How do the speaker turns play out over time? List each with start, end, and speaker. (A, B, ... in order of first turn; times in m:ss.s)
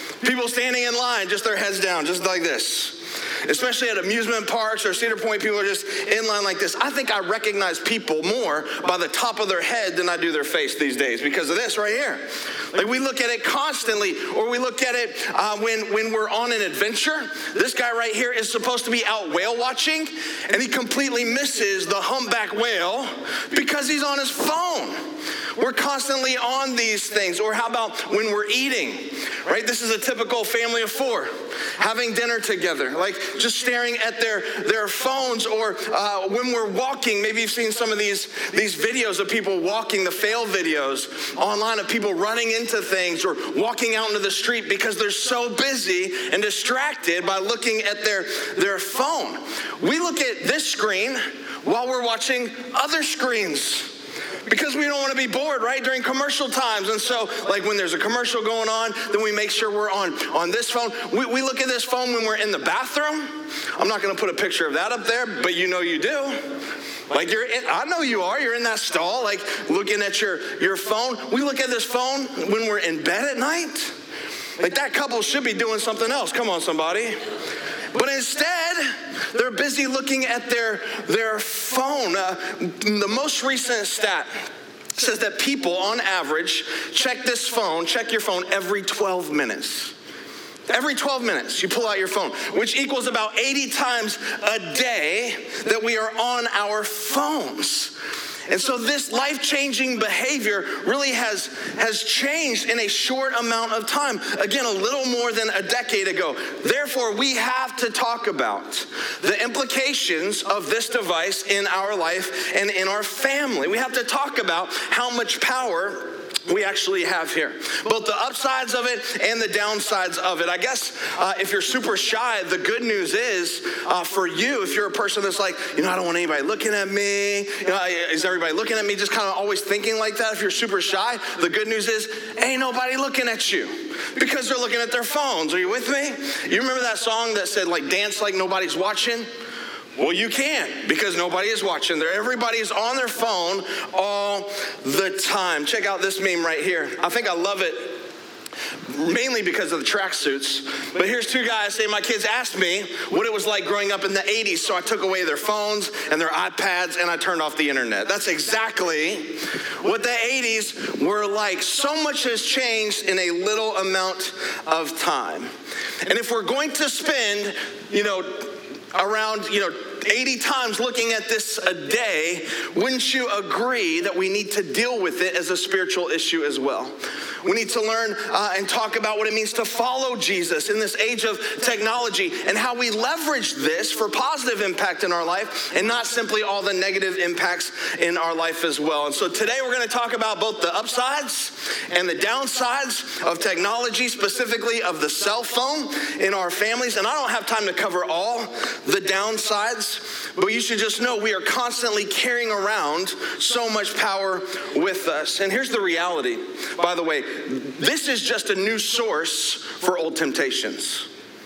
0:00.2-0:25.0 A
0:25.6-0:53.9 A
0:54.5-1:06.4 A
1:07.1-1:13.9 A
1:14.6-1:17.2 A
1:17.9-1:24.3 A
1:25.0-1:29.9 A
1:30.7-1:38.0 A
1:38.5-2:19.3 A
2:20.0-2:28.0 A
2:28.9-2:45.5 A
2:46.0-3:31.1 A